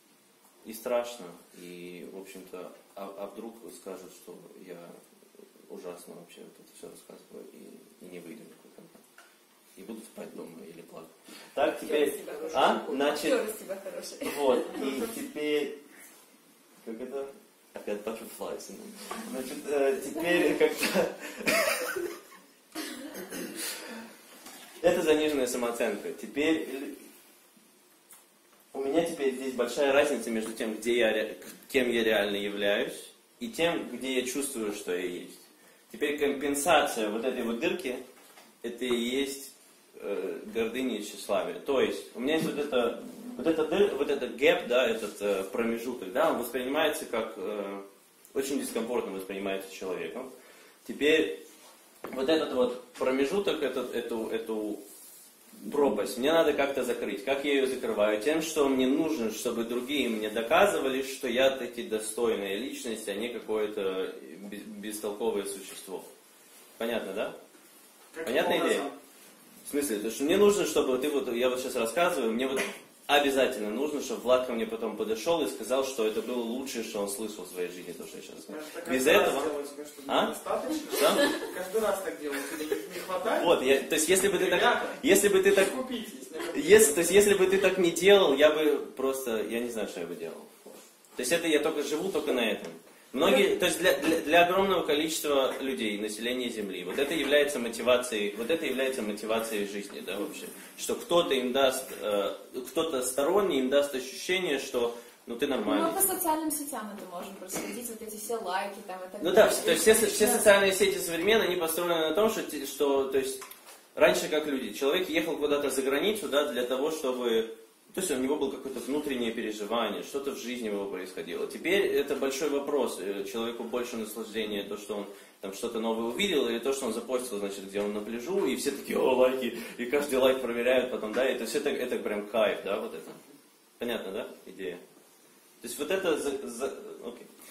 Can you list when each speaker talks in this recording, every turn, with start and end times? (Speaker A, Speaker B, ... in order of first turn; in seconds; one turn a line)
Speaker A: 0.6-4.9
Speaker A: 5.7-9.0
Speaker A: 9.8-13.4
Speaker B: 11.8-14.8
Speaker A: 14.2-15.8
Speaker A: 16.8-21.9
Speaker A: 24.8-27.1
Speaker A: 28.7-38.0
Speaker A: 38.6-50.3
Speaker A: 50.8-51.4
Speaker A: 52.1-54.8
Speaker A: 55.6-66.1
Speaker A: 66.8-67.4
Speaker C: 68.1-69.0
Speaker A: 68.2-68.9
Speaker A: 69.7-79.5
Speaker C: 78.5-83.6
Speaker A: 80.1-80.3
Speaker A: 80.9-81.3
Speaker A: 83.3-85.7
Speaker C: 84.3-87.3
Speaker A: 86.5-106.0
Speaker C: 93.2-93.5
Speaker B: 105.6-110.5
Speaker A: 109.2-113.4
Speaker A: 113.9-133.2
Speaker A: 133.8-134.8
Speaker A: 135.6-137.3